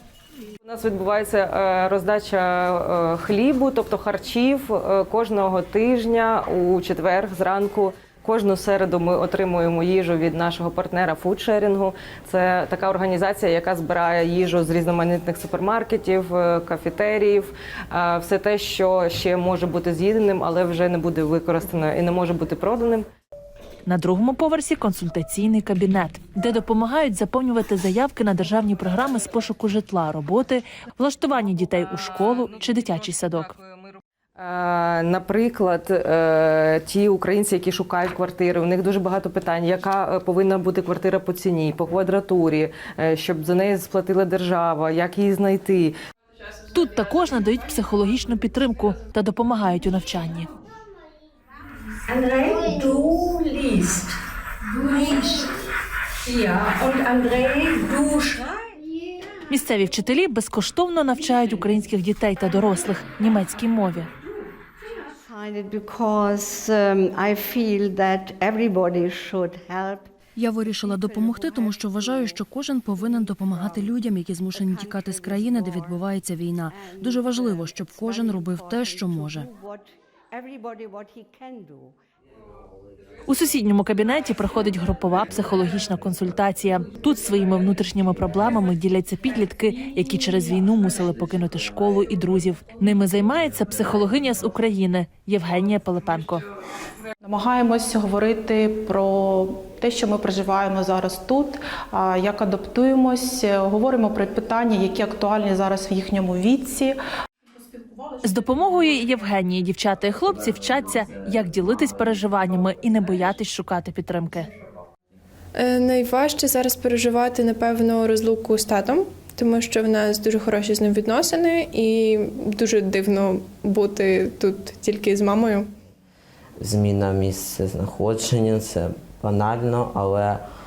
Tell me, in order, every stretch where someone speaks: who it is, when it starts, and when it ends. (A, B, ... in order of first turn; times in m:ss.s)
0:00.6-0:23.0 A
0:23.8-0:33.5 B
0:32.2-0:45.9 A
0:46.7-0:50.5 B
0:52.2-0:53.5 C
0:56.7-0:58.4 C
0:59.5-1:04.1 B
1:05.2-1:10.1 C
1:10.4-1:19.5 D
1:11.0-1:12.3 C
1:13.1-1:13.8 C
1:14.6-1:15.9 C
1:16.7-1:22.0 C
1:23.3-1:36.4 B
1:37.2-1:47.0 E
1:48.2-1:54.5 B
1:55.6-2:05.6 F
2:06.6-2:10.4 G